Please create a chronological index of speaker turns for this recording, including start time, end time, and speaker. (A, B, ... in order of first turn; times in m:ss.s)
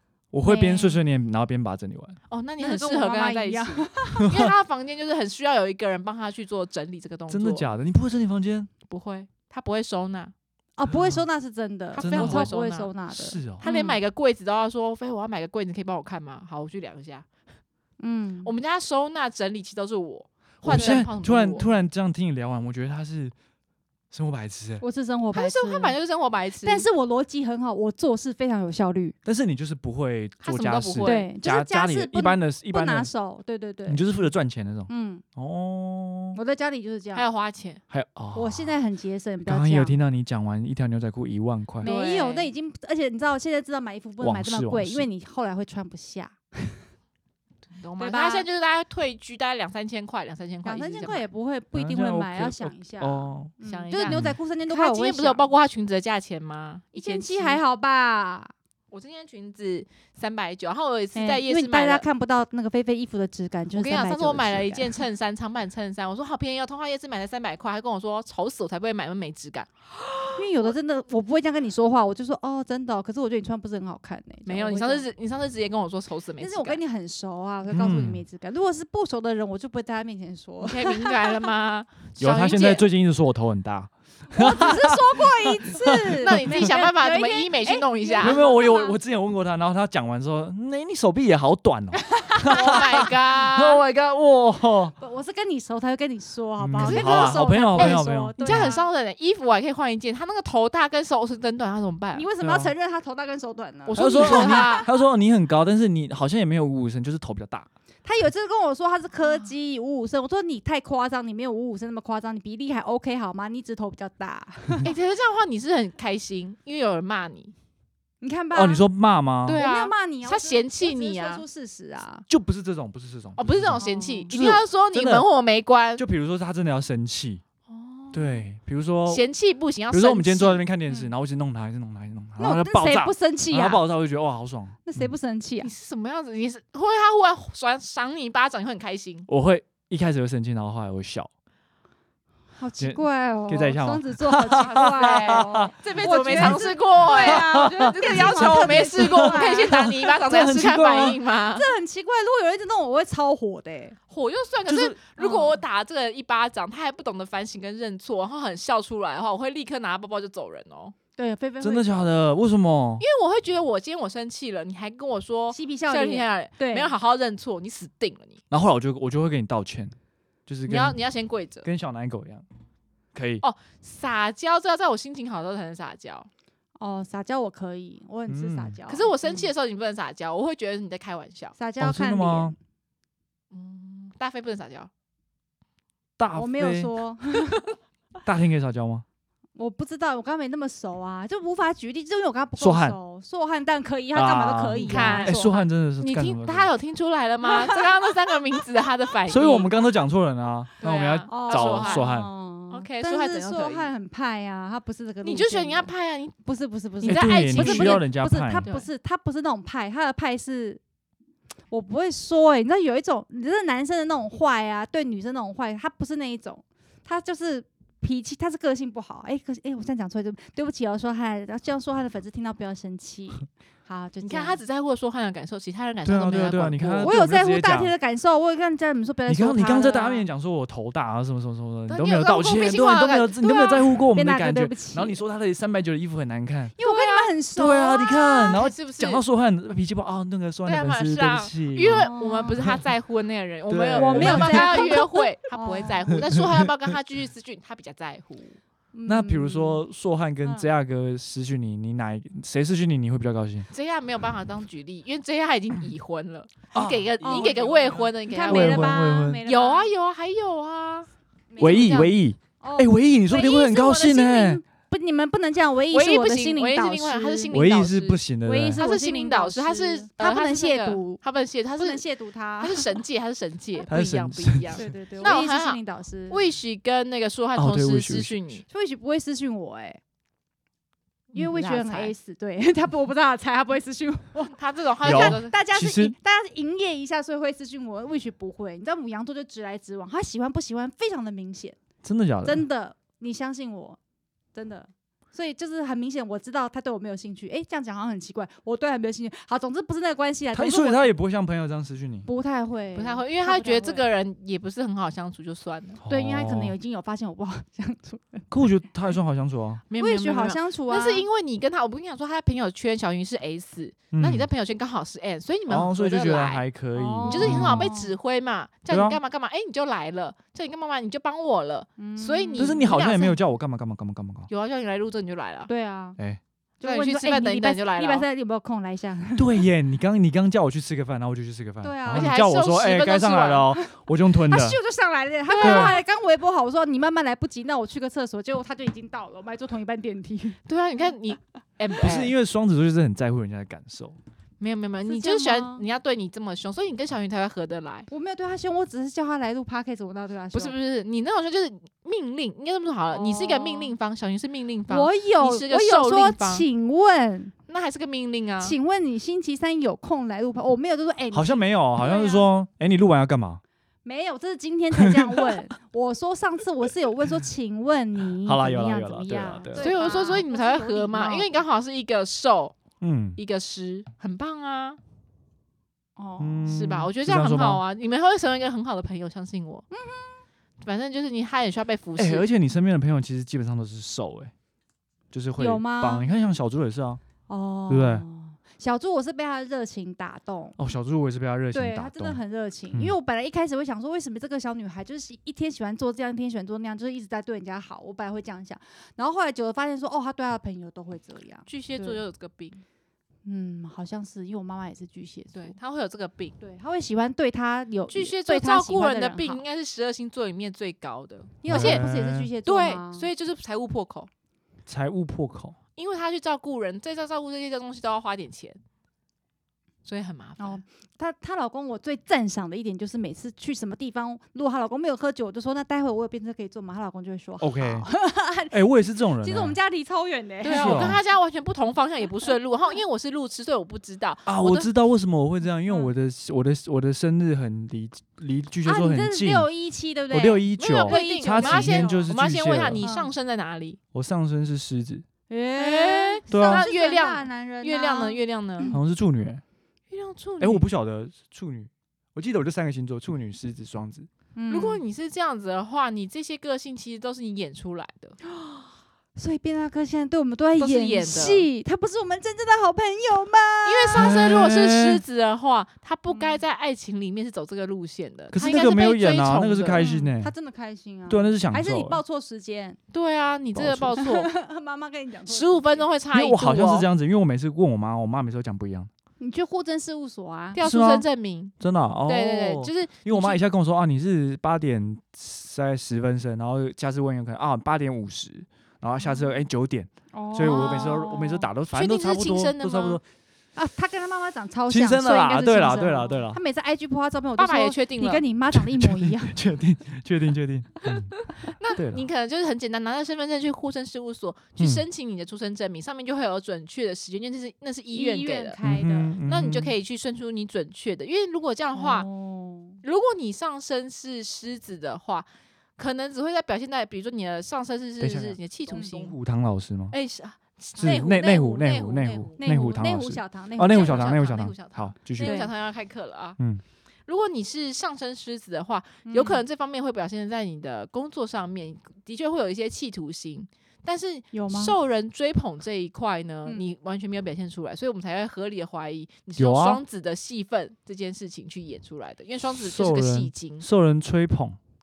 0:00.3-0:02.2 A
0:00.4-0:01.0 B
0:02.3-0:07.7 C
0:02.6-0:04.3 B
0:07.3-0:08.7 A
0:08.9-0:10.3 C
0:10.8-0:14.0 B
0:10.9-0:11.2 A
0:11.9-0:12.9 C
0:12.0-0:12.5 A
0:13.1-0:13.6 A
0:13.6-0:17.3 C
0:18.0-0:18.5 B
0:18.4-0:21.7 C
0:20.6-0:23.3 A
0:20.7-0:21.0 B
0:24.1-0:24.8 A
0:24.8-0:26.0 B
0:25.3-0:26.8 C
0:26.6-0:29.1 B
0:29.2-0:33.1 A
0:30.4-0:31.3 C
0:31.0-0:34.0 B
0:33.9-0:36.4 A
0:34.9-0:35.2 B
0:36.3-0:37.2 B
0:37.1-0:37.8 C
0:37.9-0:38.8 A
0:38.3-0:40.0 B
0:39.4-0:41.9 A
0:41.8-0:42.5 C
0:41.8-0:46.8 B
0:44.2-0:45.1 A
0:47.8-0:51.2 C
0:48.0-0:48.4 B
0:50.6-0:55.4 B
0:51.7-0:53.5 A
0:53.6-0:57.6 C
0:54.1-0:54.4 A
0:56.9-0:58.5 B
0:58.9-1:02.0 C
1:01.1-1:04.9 B
1:03.7-1:10.4 C
1:10.4-1:15.1 B
1:14.4-1:16.8 C
1:16.4-1:21.4 B
1:17.7-1:18.2 A
1:20.6-1:22.8 C
1:22.2-1:26.6 A
1:24.3-1:29.0 B
1:26.2-1:28.4 C
1:28.2-1:34.9 A
1:32.0-1:33.1 B
1:32.5-1:33.8 C
1:35.0-1:38.8 B
1:36.6-1:38.7 A
1:36.8-1:42.2 C
1:42.1-1:44.9 B
1:42.4-1:42.7 A
1:43.9-1:44.9 C
1:44.0-1:47.7 A
1:48.0-1:54.9 B
1:54.8-1:57.5 C
1:58.2-1:58.8 B
1:58.5-1:59.6 A
1:59.4-2:01.4 C
1:59.5-2:02.2 B
2:02.3-2:05.3 A
2:03.4-2:06.0 C
2:03.8-2:04.3 B
2:06.0-2:07.4 A
2:07.7-2:08.4 C
2:08.1-2:09.3 A
2:09.0-2:10.6 C
2:09.9-2:15.1 A
2:12.4-2:13.8 B
2:14.8-2:15.7 B
2:15.6-2:19.3 C
2:19.3-2:21.3 A
2:22.6-2:29.7 B
2:22.8-2:31.2 A
2:24.6-2:31.7 C
2:31.6-2:34.0 B
2:34.1-2:40.9 C
2:34.7-2:35.0 A
2:35.2-2:35.6 B
2:41.2-2:42.0 B
2:41.6-2:43.0 A
2:43.0-2:48.4 C
2:45.5-2:46.9 B
2:48.5-2:49.9 A
2:50.5-2:51.0 A
2:50.6-2:51.6 C
2:51.6-2:52.4 A
2:53.1-2:53.4 A
2:53.4-2:56.3 C
2:56.8-2:59.4 B
2:58.3-2:58.8 A
2:58.9-3:01.5 C
3:01.6-3:02.6 B
3:01.8-3:02.6 A
3:03.5-3:04.9 C
3:06.2-3:06.9 A
3:06.3-3:07.7 B
3:08.2-3:09.0 A
3:09.6-3:15.6 B
3:12.6-3:13.0 A
3:14.1-3:16.7 A
3:14.9-3:15.4 C
3:16.0-3:19.7 C
3:19.3-3:22.3 A
3:20.8-3:22.0 C
3:21.3-3:25.9 B
3:22.7-3:23.9 C
3:25.2-3:26.4 C
3:26.4-3:30.8 B
3:27.0-3:28.1 C
3:27.0-3:28.7 A
3:28.6-3:28.9 C
3:31.7-3:44.6 B
3:44.2-3:47.1 C
3:46.0-3:47.9 A
3:47.0-3:50.2 B
3:49.3-3:56.7 A
3:51.9-3:53.8 C
3:53.4-3:55.2 B
3:56.8-3:58.7 B
3:56.8-3:57.3 C
3:57.6-4:02.8 A
3:58.5-3:59.2 C
4:00.6-4:08.6 C
4:01.9-4:02.7 B
4:03.7-4:05.2 A
4:03.9-4:06.0 B
4:06.3-4:06.6 A
4:08.9-4:09.8 B
4:09.0-4:13.7 A
4:10.4-4:10.7 B
4:13.7-4:18.9 C
4:16.7-4:17.6 A
4:17.2-4:19.9 B
4:18.5-4:19.4 A
4:19.4-4:22.1 C
4:21.5-4:27.5 B
4:21.6-4:24.6 A
4:25.9-4:28.2 C
4:27.5-4:28.8 A
4:28.4-4:31.2 B
4:28.8-4:32.0 C
4:31.8-4:33.0 B
4:32.6-4:38.6 C
4:33.9-4:34.8 A
4:34.7-4:36.4 B
4:37.6-4:38.4 A
4:38.7-4:40.0 B
4:41.3-4:51.8 B
4:41.3-4:42.1 C
4:44.6-4:45.6 C
4:45.0-4:46.1 A
4:52.0-4:52.6 A
4:52.4-4:54.0 B
4:54.5-5:01.1 B
5:00.5-5:02.3 A
5:02.2-5:04.0 B
5:02.9-5:06.0 C
5:06.0-5:06.8 A
5:06.1-5:08.5 B
5:08.5-5:09.8 A
5:09.9-5:16.6 C
5:10.0-5:11.2 B
5:14.1-5:14.5 A
5:15.7-5:17.9 A
5:16.9-5:18.1 B
5:17.3-5:23.4 C
5:18.9-5:19.2 A
5:22.0-5:22.8 B
5:22.6-5:24.5 A
5:24.5-5:25.7 C
5:25.7-5:26.2 B
5:26.8-5:29.6 B
5:26.8-5:28.2 C
5:29.4-5:34.8 A
5:31.8-5:32.4 B
5:32.1-5:33.7 C
5:34.4-5:40.6 B
5:35.5-5:36.0 C
5:35.6-5:36.0 A
5:40.7-5:42.3 C
5:42.0-5:44.2 A
5:44.6-5:48.1 C
5:45.0-5:45.8 B
5:48.1-5:50.7 B
5:50.5-5:56.6 C
5:53.1-5:53.9 B
5:54.9-5:57.5 B
5:57.7-5:58.8 C
5:58.6-6:02.5 B
6:01.3-6:03.6 A
6:04.0-6:11.5 B
6:04.9-6:05.6 A
6:08.4-6:09.9 A
6:09.8-6:12.8 C
6:13.0-6:13.4 A
6:13.4-6:15.0 C
6:16.2-6:16.7 B
6:16.4-6:17.8 A
6:16.7-6:19.8 C
6:19.9-6:20.4 B
6:20.8-6:22.4 C
6:22.2-6:24.5 A
6:25.3-6:27.2 A
6:25.6-6:26.2 B
6:27.5-6:30.8 B
6:27.9-6:28.2 A
6:30.8-6:32.4 A
6:31.7-6:42.2 B
6:41.7-6:42.8 C
6:43.4-6:45.8 B
6:45.5-6:46.6 C
6:46.6-6:49.6 B
6:48.1-6:52.0 C
6:51.6-6:53.3 B
6:51.7-6:52.5 A
6:52.6-6:54.3 C
6:54.9-6:55.8 A
6:56.0-6:58.8 C
7:00.0-7:00.8 C
7:00.6-7:11.2 B
7:07.6-7:08.1 A
7:08.7-7:09.8 A
7:10.6-7:14.9 C
7:10.7-7:11.2 A
7:14.4-7:19.7 A
7:18.8-7:22.3 B
7:20.3-7:23.0 A
7:20.8-7:24.0 C
7:23.0-7:23.3 B
7:24.1-7:25.2 A
7:25.5-7:29.0 B
7:25.8-7:28.9 C
7:26.5-7:26.8 A
7:28.9-7:29.6 A
7:30.1-7:30.8 C
7:30.6-7:34.3 A
7:34.6-7:35.0 B
7:34.7-7:38.4 C
7:38.5-7:44.4 B
7:40.8-7:41.7 C
7:43.8-7:50.1 C
7:44.1-7:45.2 A
7:46.3-7:46.6 B
7:48.5-7:50.5 A
7:50.0-7:53.0 B
7:51.3-7:52.2 A
7:53.1-7:54.5 C
7:53.7-7:54.1 A
7:54.2-7:56.0 B
7:55.5-7:57.1 C
7:56.3-7:59.1 A
7:59.4-8:00.8 B
8:00.7-8:01.7 C
8:00.8-8:01.2 A
8:01.8-8:13.2 A
8:02.2-8:03.6 C
8:10.3-8:11.7 B
8:11.9-8:13.2 C
8:13.8-8:19.5 B
8:14.9-8:16.6 A
8:17.6-8:18.4 C
8:18.7-8:21.4 A
8:21.6-8:28.8 C
8:21.9-8:22.2 A
8:24.8-8:25.0 A
8:28.1-8:29.3 B
8:28.8-8:29.9 A
8:29.4-8:32.3 C
8:31.9-8:33.0 B
8:33.0-8:39.4 C
8:38.2-8:40.2 A
8:38.9-8:39.2 B
8:40.1-8:42.7 C
8:41.0-8:45.6 A
8:42.6-8:44.1 B
8:43.8-8:46.6 C
8:45.4-8:45.7 B
8:47.3-9:03.8 C
8:49.2-8:49.6 B
8:54.5-8:54.9 B
8:59.6-9:00.0 A
9:02.8-9:04.8 A